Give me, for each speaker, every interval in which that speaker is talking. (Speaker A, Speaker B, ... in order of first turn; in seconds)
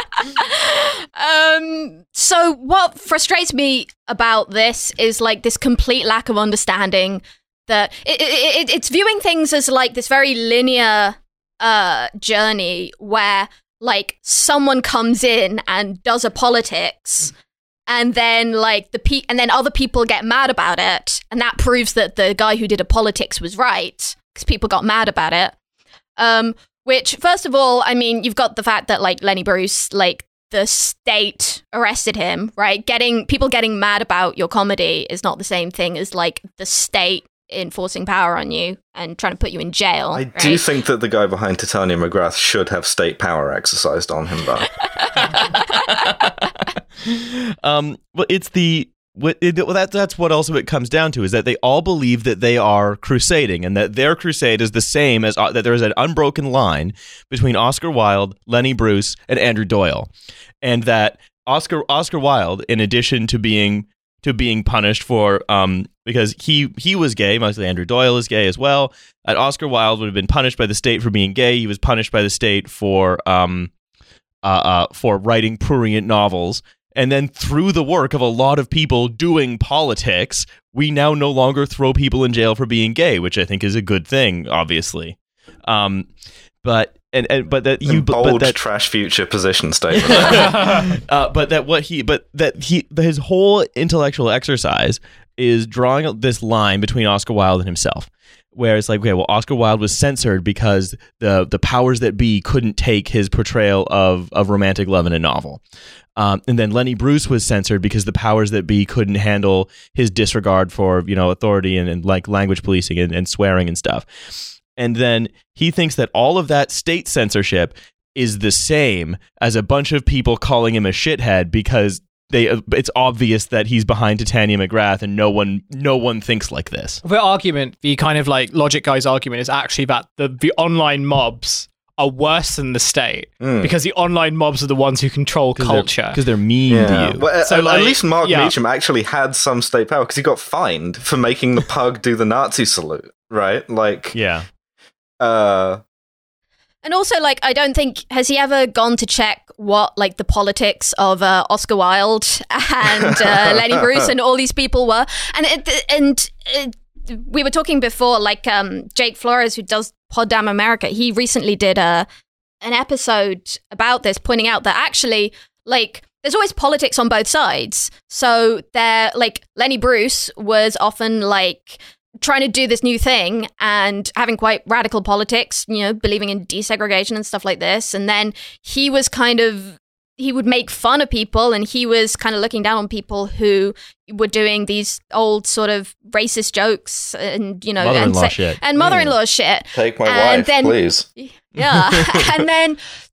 Speaker A: 0.2-17.3, 17.9-25.6, 26.2-40.7, 146.8-162.1, 162.6-192.8
Speaker B: 40.1-44.7, 87.8-90.9, 133.4-133.7, 136.7-144.2, 145.2-145.8, 188.8-189.1, 189.8-191.1
Speaker C: 45.8-60.1, 60.6-73.7, 74.4-86.1, 86.6-88.6, 89.9-105.6, 106.2-114.1, 114.8-127.0, 135.6-137.2, 144.1-144.5, 187.8-188.6
Speaker D: 90.3-90.8, 127.0-136.2, 137.4-138.5